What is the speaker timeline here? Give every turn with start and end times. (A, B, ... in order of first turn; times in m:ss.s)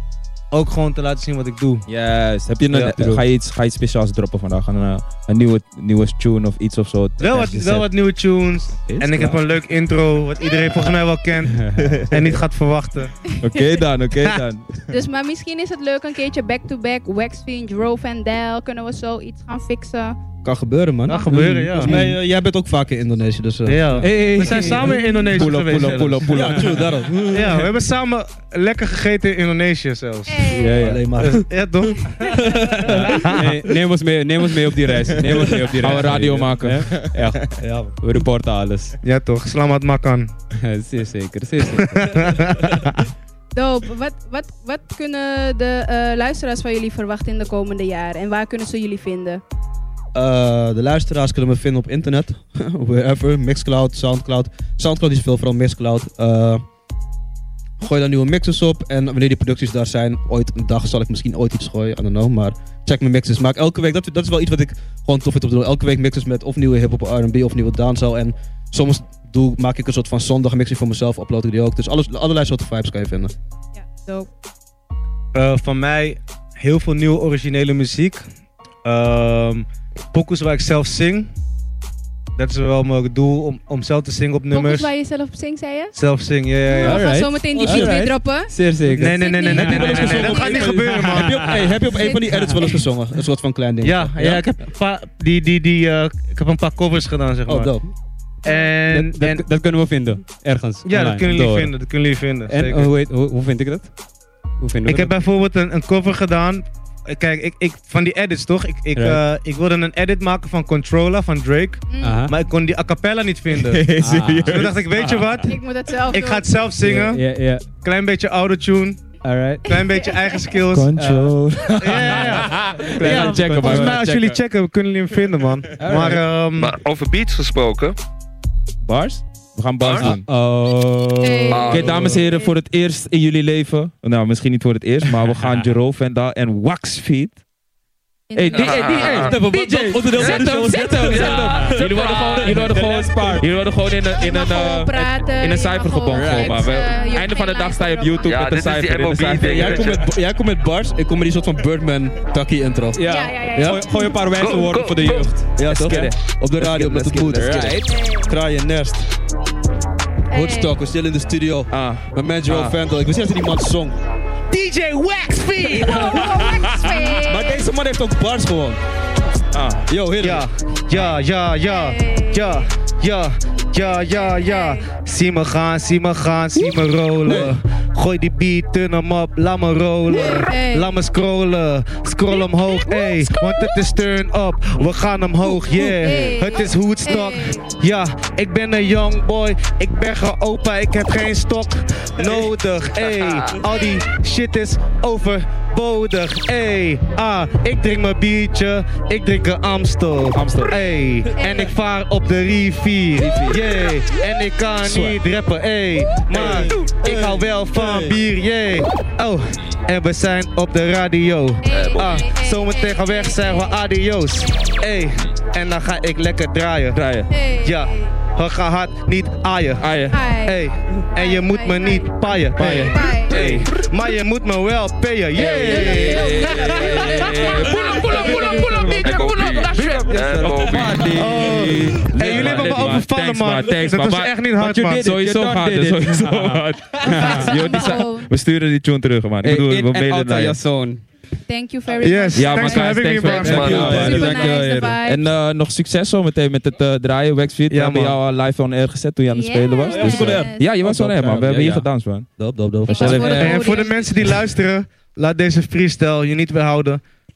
0:00.5-0:01.9 A
0:01.9-0:07.8 B
0:02.7-0:03.2 C
0:07.2-0:13.1 A
0:08.9-0:09.4 B
0:11.5-0:12.0 C
0:11.7-0:12.4 B
0:13.4-0:14.8 B
0:13.4-0:13.7 D
0:14.9-0:20.2 D
0:20.4-0:25.0 E
0:21.1-0:22.0 A
0:21.3-0:22.2 C
0:23.6-0:26.2 A
0:24.0-0:25.2 C
0:25.3-0:26.8 B
0:25.8-0:27.6 E
0:27.3-0:30.5 A
0:30.3-0:30.9 D
0:30.5-0:31.1 C
0:30.8-0:31.5 E
0:31.2-0:32.5 A
0:32.3-0:33.1 E
0:32.8-0:37.4 C
0:33.0-0:33.5 A
0:35.2-0:35.7 E
0:35.8-0:37.5 B
0:37.6-0:38.0 E
0:38.0-0:39.0 C
0:39.0-0:40.3 A
0:40.6-0:42.0 C
0:41.6-0:42.9 A
0:43.5-0:49.4 D
0:50.1-0:56.6 E
0:57.8-1:13.3 E
1:13.8-1:14.3 D
1:15.3-1:18.2 A
1:18.8-1:21.3 A
1:22.4-1:24.9 A
1:24.5-1:26.0 D
1:26.0-1:27.1 A
1:26.6-1:32.9 D
1:26.8-1:32.4 C
1:27.6-1:28.0 E
1:28.9-1:31.4 A
1:29.5-1:34.1 E
1:33.8-1:37.7 A
1:34.2-1:34.4 C
1:37.5-1:37.9 E
1:38.4-1:39.4 A
1:38.8-1:41.8 C
1:40.8-1:42.9 A
1:42.4-1:43.9 C
1:44.6-1:45.1 C
1:44.8-1:53.9 A
1:48.9-1:49.2 C
1:51.9-1:52.2 D
1:52.0-1:52.3 C
1:53.5-1:55.1 B
1:54.0-1:54.6 C
1:54.5-1:55.5 A
1:55.4-1:56.5 D
1:56.1-1:57.2 A
1:56.8-1:57.6 C
1:57.8-1:59.0 A
1:59.2-1:59.6 C
1:59.7-2:00.9 A
1:59.7-2:00.4 D
2:00.7-2:04.0 B
2:01.0-2:01.4 C
2:01.8-2:06.8 A
2:02.1-2:04.4 C
2:05.8-2:06.2 C
2:06.6-2:08.0 F
2:08.8-2:10.3 B
2:09.8-2:10.1 F
2:10.0-2:12.2 C
2:11.2-2:12.5 D
2:11.5-2:11.9 F
2:11.7-2:17.4 B
2:18.3-2:19.3 D
2:18.4-2:29.9 B
2:18.5-2:19.4 F
2:19.1-2:21.9 E
2:20.1-2:22.6 F
2:20.8-2:23.5 C
2:24.1-2:28.4 D
2:26.1-2:26.7 C
2:28.2-2:30.1 F
2:29.2-2:33.8 E
2:32.9-2:35.5 C
2:33.1-2:34.1 D
2:34.4-2:35.4 F
2:35.6-2:39.1 E
2:35.6-2:37.9 B
2:37.8-2:38.3 D
2:40.3-2:40.8 D
2:40.3-2:44.0 E
2:41.7-2:42.8 B
2:44.5-2:46.2 A
2:45.6-2:47.6 D
2:46.1-2:46.9 B
2:47.3-2:48.8 E
2:49.5-2:49.9 B
2:49.9-2:50.5 E
2:50.2-3:37.0 A
2:50.9-2:52.7 D
2:53.8-2:54.9 D
2:57.2-2:57.6 E
3:00.1-3:01.0 D
3:02.4-3:03.7 D
3:05.4-3:07.6 D
3:13.2-3:13.6 F
3:20.3-3:20.8 B
3:21.3-3:21.8 D
3:23.2-3:23.9 C
3:24.8-3:25.2 B
3:26.3-3:27.4 B
3:26.4-3:26.7 C
3:31.6-3:33.8 D
3:31.7-3:32.1 F
3:34.4-3:34.8 D
3:36.9-3:37.3 B
3:37.3-3:38.2 D
3:37.6-3:50.0 A
3:39.8-3:40.3 B
3:40.1-3:43.4 D
3:42.6-3:43.7 B
3:45.3-3:49.1 D
3:45.4-3:54.4 B
3:47.6-3:51.1 F
3:48.6-3:48.9 C
3:49.9-3:53.0 C
3:51.0-3:55.1 A
3:54.6-3:57.9 C
3:55.0-4:00.6 B
3:57.0-3:58.3 D
3:59.4-4:01.0 C
4:01.5-4:05.3 D
4:02.0-4:04.5 A
4:02.3-4:12.3 B
4:03.3-4:04.0 F
4:03.6-4:05.0 C
4:07.7-4:08.2 A
4:09.3-4:10.7 D
4:09.9-4:11.5 E
4:10.0-4:11.9 C
4:12.4-4:13.2 E
4:12.9-4:14.4 D
4:12.9-4:13.9 C
4:12.9-4:13.5 B
4:13.3-4:17.0 A